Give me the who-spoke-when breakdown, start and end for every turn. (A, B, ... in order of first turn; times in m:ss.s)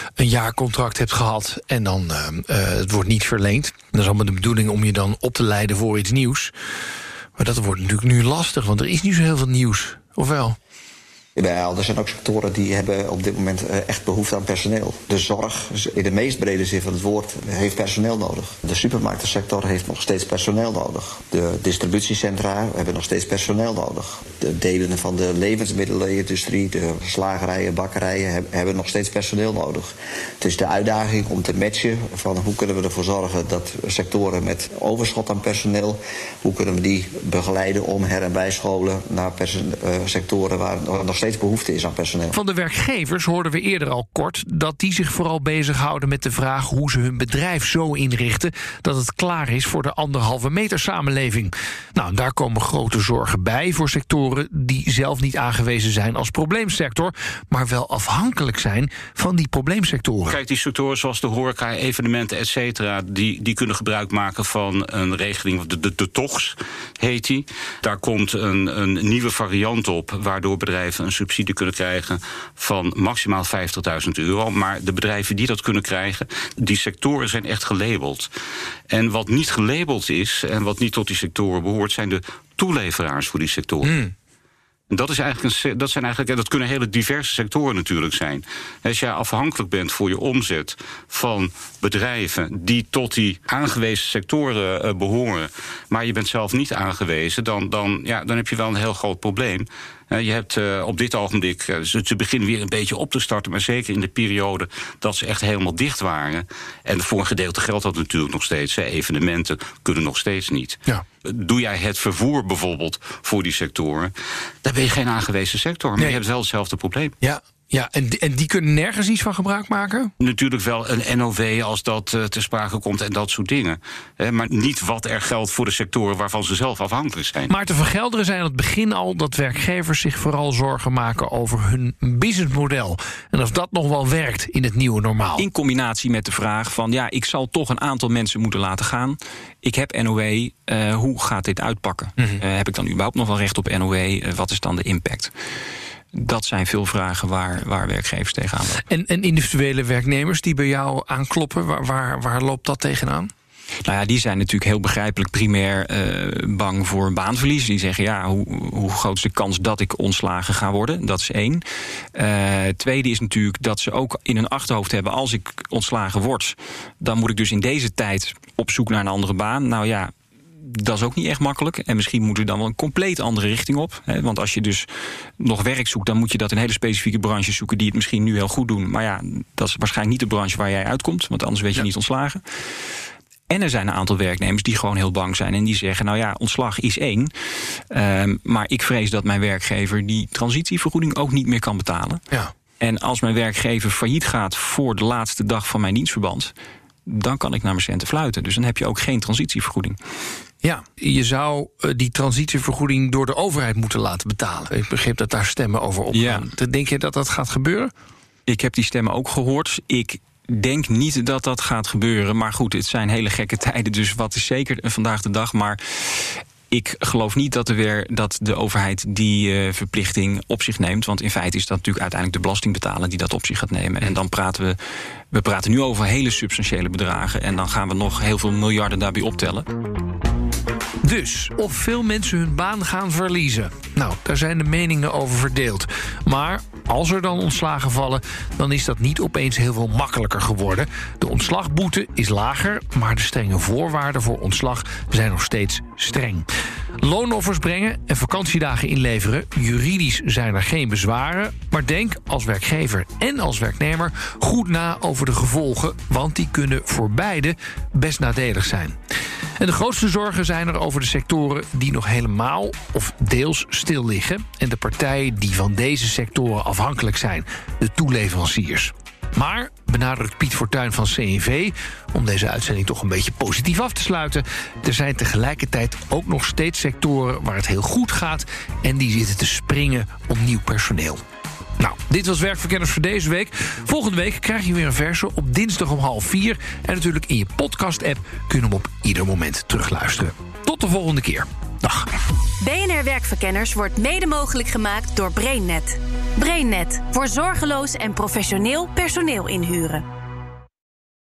0:00.2-0:06.5 A
0:07.4-0:10.6 A
0:11.4-0:42.4 B
0:42.3-1:00.4 A
1:00.3-1:18.3 C
1:18.9-1:24.0 C
1:23.8-1:24.1 A
1:24.9-1:54.1 C
1:54.6-1:57.2 C
1:57.2-2:00.1 A
2:00.2-2:07.5 C
2:07.5-2:15.4 A
2:15.4-2:25.3 D
2:26.1-2:28.8 D
2:28.9-2:33.3 A
2:33.8-2:41.6 D
2:42.2-2:54.9 D
2:55.4-3:02.4 D
3:03.5-3:07.3 D
3:07.9-3:12.2 D
3:12.8-3:16.5 D
3:17.1-3:20.0 D
3:20.6-3:27.9 A
3:26.1-3:26.5 D
3:28.5-3:44.8 D
3:45.3-3:49.7 D
3:51.0-4:06.5 A
4:07.0-4:19.0 A
4:19.6-4:41.2 A
4:41.8-4:52.1 A
4:52.6-5:00.1 E